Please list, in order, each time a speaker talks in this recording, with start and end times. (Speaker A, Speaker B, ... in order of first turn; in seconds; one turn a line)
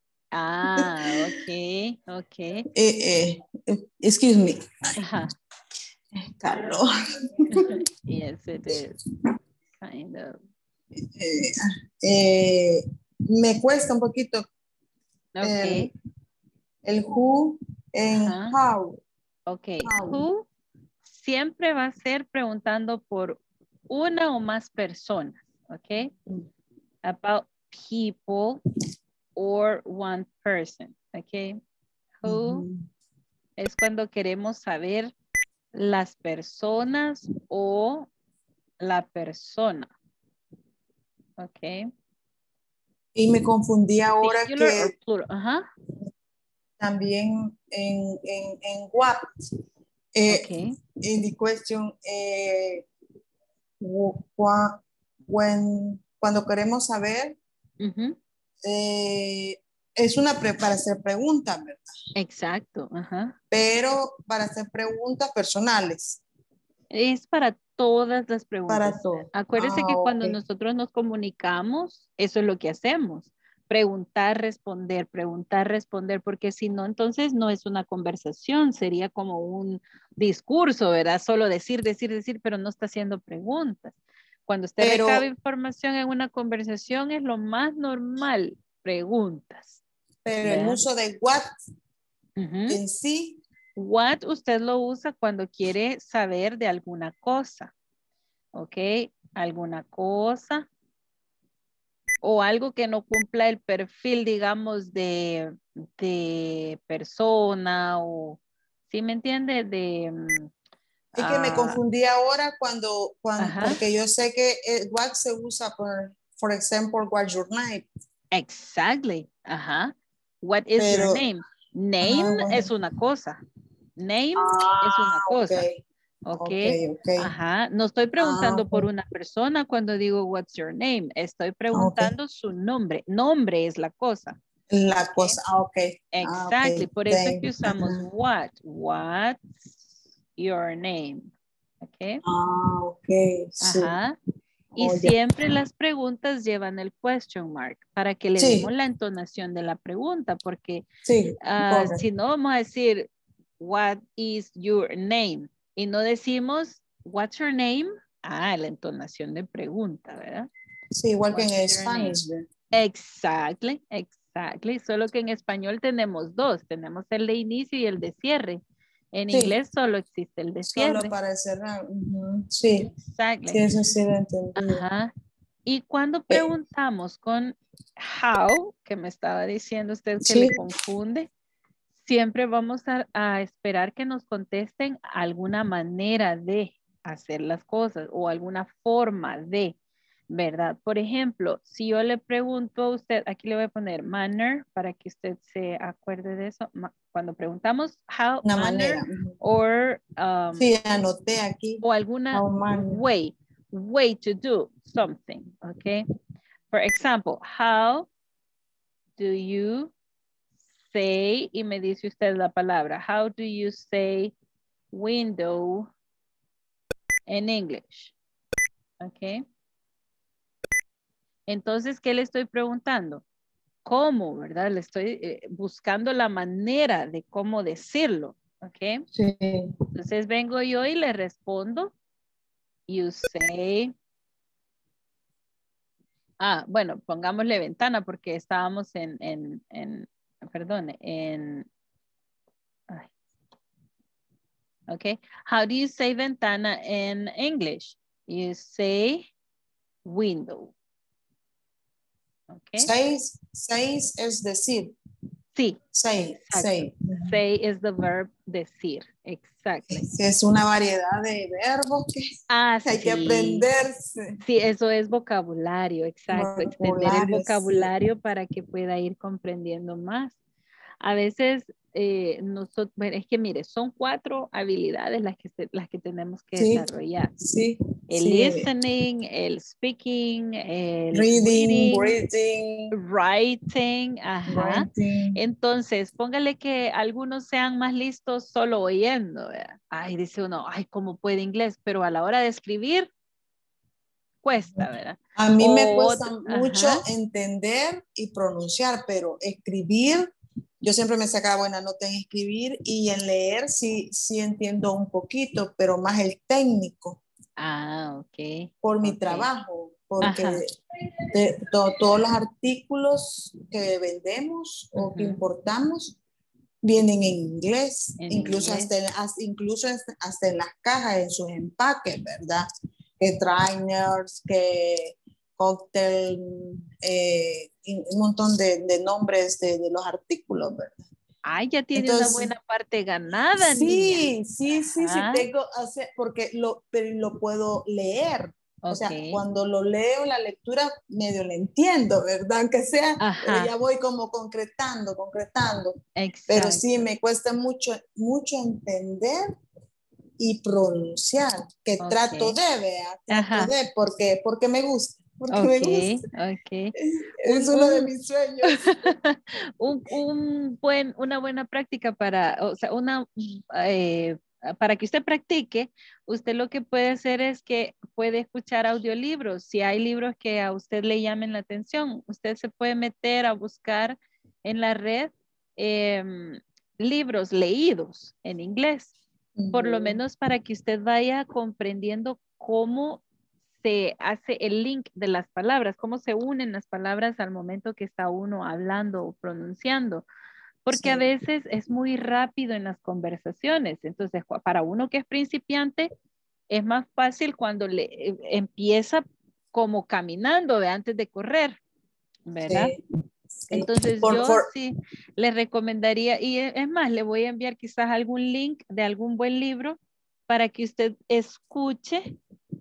Speaker A: 0.3-2.7
Speaker B: 2.7-4.9
Speaker A: 5.0-5.3
Speaker B: 6.1-7.7
Speaker A: 7.5-8.9
Speaker A: 9.8-10.4
Speaker B: 10.9-14.5
Speaker A: 15.3-15.9
Speaker B: 15.4-15.9
Speaker B: 16.8-19.0
Speaker A: 18.2-18.6
Speaker A: 19.5-20.4
Speaker B: 19.8-20.2
Speaker A: 21.1-23.4
Speaker A: 23.9-26.1
Speaker A: 27.0-28.6
Speaker A: 29.4-31.6
Speaker A: 32.2-32.6
Speaker B: 32.3-32.9
Speaker A: 33.6-35.1
Speaker A: 35.7-38.1
Speaker A: 38.8-39.9
Speaker A: 41.4-41.9
Speaker B: 43.1-44.9
Speaker A: 44.2-45.7
Speaker B: 46.8-49.2
Speaker B: 50.1-52.9
Speaker A: 50.3-50.8
Speaker B: 53.8-57.4
Speaker A: 57.8-58.2
Speaker B: 58.6-61.9
Speaker A: 62.1-63.3
Speaker B: 63.5-66.2
Speaker A: 66.9-83.9
Speaker B: 68.7-70.4
Speaker A: 84.5-89.8
Speaker B: 84.8-85.3
Speaker B: 90.2-91.5
Speaker A: 90.4-90.8
Speaker A: 92.4-92.8
Speaker B: 92.7-93.4
Speaker A: 93.8-97.7
Speaker A: 98.5-100.7
Speaker A: 102.2-110.5
Speaker B: 111.2-117.9
Speaker A: 111.2-111.8
Speaker A: 113.4-113.8
Speaker A: 118.3-123.4
Speaker B: 120.8-121.2
Speaker B: 122.0-122.7
Speaker A: 124.0-125.6
Speaker B: 124.3-125.8
Speaker A: 126.2-134.4
Speaker B: 126.4-127.3
Speaker B: 128.2-128.9
Speaker B: 131.7-132.1
Speaker B: 134.7-138.0
Speaker A: 135.1-135.4
Speaker A: 136.1-141.3
Speaker A: 141.8-142.2
Speaker B: 142.2-143.9
Speaker A: 143.6-144.2
Speaker A: 144.8-150.8
Speaker B: 144.8-145.2
Speaker B: 148.4-148.7
Speaker B: 151.0-152.0
Speaker A: 151.4-153.1
Speaker A: 153.6-160.5
Speaker B: 160.9-162.5
Speaker A: 161.3-162.2
Speaker A: 162.7-168.6
Speaker A: 169.1-171.1
Speaker B: 169.3-169.6
Speaker B: 170.7-172.9
Speaker A: 172.9-173.7
Speaker B: 173.5-174.8
Speaker A: 174.6-175.1
Speaker A: 175.7-181.3
Speaker B: 180.2-180.6
Speaker A: 182.0-189.8
Speaker A: 190.3-200.7
Speaker B: 198.4-199.3
Speaker B: 200.6-203.0
Speaker A: 201.8-206.1
Speaker A: 206.7-208.1
Speaker A: 209.2-209.9
Speaker A: 210.9-214.3
Speaker A: 214.9-215.9
Speaker A: 217.3-218.1
Speaker A: 219.0-219.4
Speaker A: 221.5-223.2
Speaker A: 223.8-229.1
Speaker B: 229.1-229.7
Speaker A: 229.9-231.9
Speaker A: 232.9-233.9
Speaker A: 236.4-241.7
Speaker A: 244.9-249.3
Speaker A: 250.0-250.7
Speaker A: 252.5-252.9
Speaker B: 252.8-254.9
Speaker A: 255.5-255.8
Speaker B: 255.9-257.4
Speaker A: 256.3-260.0
Speaker B: 259.9-262.3
Speaker A: 262.5-263.6
Speaker B: 262.8-264.3
Speaker A: 264.4-270.4
Speaker B: 266.3-267.9
Speaker A: 271.0-277.3
Speaker B: 276.6-276.8
Speaker B: 277.4-278.7
Speaker A: 278.1-282.1
Speaker B: 281.1-282.9
Speaker A: 282.9-293.1
Speaker B: 284.5-285.4
Speaker A: 294.4-297.0
Speaker B: 294.8-307.2
Speaker A: 307.6-309.5
Speaker B: 308.8-310.8
Speaker A: 310.2-310.6
Speaker B: 311.3-316.1
Speaker A: 314.9-315.4
Speaker B: 316.8-322.7
Speaker A: 318.2-318.9
Speaker B: 323.2-331.0
Speaker A: 331.4-334.4
Speaker B: 331.9-332.5
Speaker B: 333.6-349.6
Speaker A: 335.0-335.4
Speaker A: 338.8-339.4
Speaker A: 343.2-343.7
Speaker A: 346.1-347.1
Speaker B: 350.4-356.2
Speaker A: 352.0-352.6
Speaker A: 353.3-353.7
Speaker A: 355.5-356.9
Speaker B: 357.0-358.8
Speaker A: 357.4-358.1
Speaker A: 358.6-379.1
Speaker B: 379.6-380.2
Speaker A: 379.7-383.2
Speaker A: 383.8-390.2
Speaker A: 390.8-396.1
Speaker B: 390.9-391.3
Speaker A: 396.7-401.8
Speaker A: 402.5-402.9
Speaker B: 402.7-403.0
Speaker B: 403.6-404.7
Speaker A: 403.7-412.3